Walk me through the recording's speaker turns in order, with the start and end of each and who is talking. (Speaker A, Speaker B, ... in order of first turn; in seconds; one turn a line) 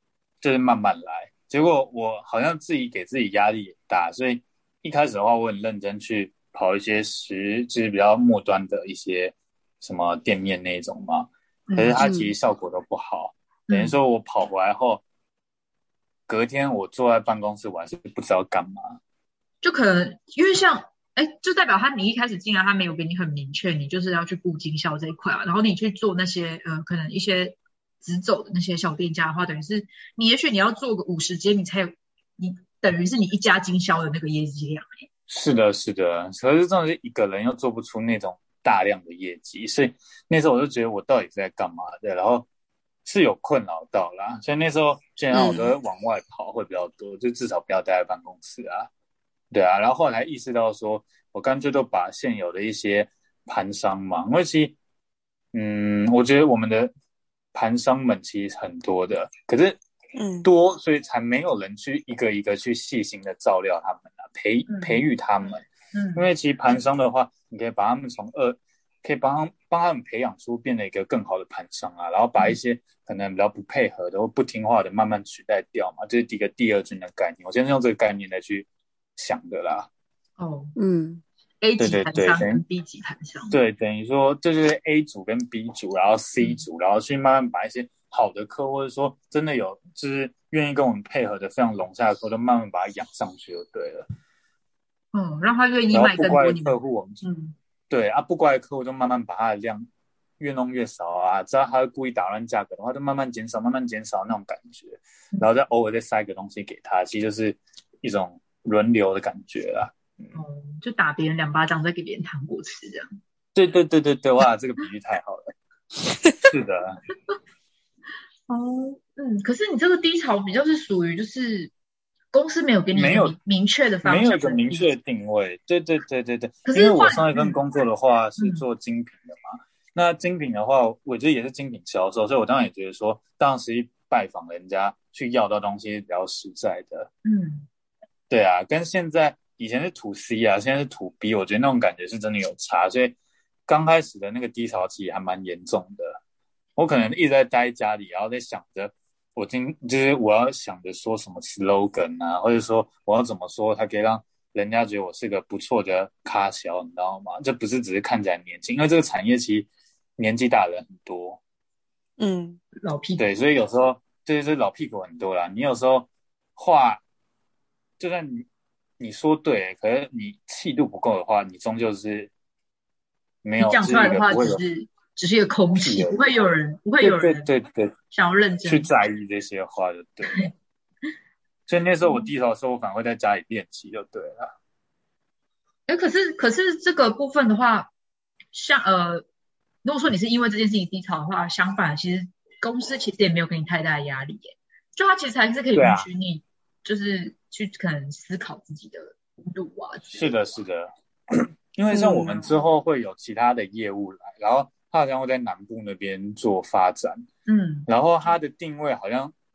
Speaker A: 0.4-15.0
Speaker B: 11.7-12.0
Speaker C: 12.0-12.3
Speaker B: 13.7-13.9
Speaker A: 16.3-19.0
Speaker B: 19.6-35.0
Speaker A: 35.3-42.5
Speaker A: 43.0-48.9
Speaker C: 45.3-45.7
Speaker A: 49.5-54.8
Speaker A: 55.5-56.9
Speaker A: 57.5-59.8
Speaker C: 60.1-60.5
Speaker A: 60.4-79.9
Speaker B: 64.7-65.0
Speaker B: 65.9-66.2
Speaker B: 80.4-80.8
Speaker C: 80.8-81.2
Speaker B: 81.6-83.5
Speaker A: 81.8-82.6
Speaker A: 83.5-94.0
Speaker B: 95.1-97.5
Speaker A: 95.9-97.2
Speaker A: 97.9-99.9
Speaker A: 100.4-110.3
Speaker B: 110.3-113.1
Speaker A: 113.5-115.5
Speaker A: 116.4-117.0
Speaker B: 118.5-121.7
Speaker B: 122.3-124.9
Speaker A: 122.9-123.3
Speaker A: 124.0-137.1
Speaker B: 126.7-127.6
Speaker B: 128.4-128.6
Speaker B: 137.2-137.7
Speaker A: 138.3-146.2
Speaker A: 146.8-161.4
Speaker C: 162.2-162.6
Speaker B: 162.8-163.2
Speaker A: 163.2-167.0
Speaker A: 168.0-168.5
Speaker A: 169.0-172.3
Speaker A: 173.4-174.6
Speaker B: 173.6-177.5
Speaker A: 175.7-176.2
Speaker A: 177.0-177.9
Speaker B: 178.1-178.9
Speaker A: 178.6-180.5
Speaker A: 181.7-184.5
Speaker B: 182.0-182.3
Speaker B: 185.9-187.9
Speaker B: 188.5-189.2
Speaker B: 189.8-200.3
Speaker A: 195.7-196.1
Speaker A: 200.1-207.2
Speaker C: 201.9-202.4
Speaker B: 207.5-207.9
Speaker A: 207.9-209.3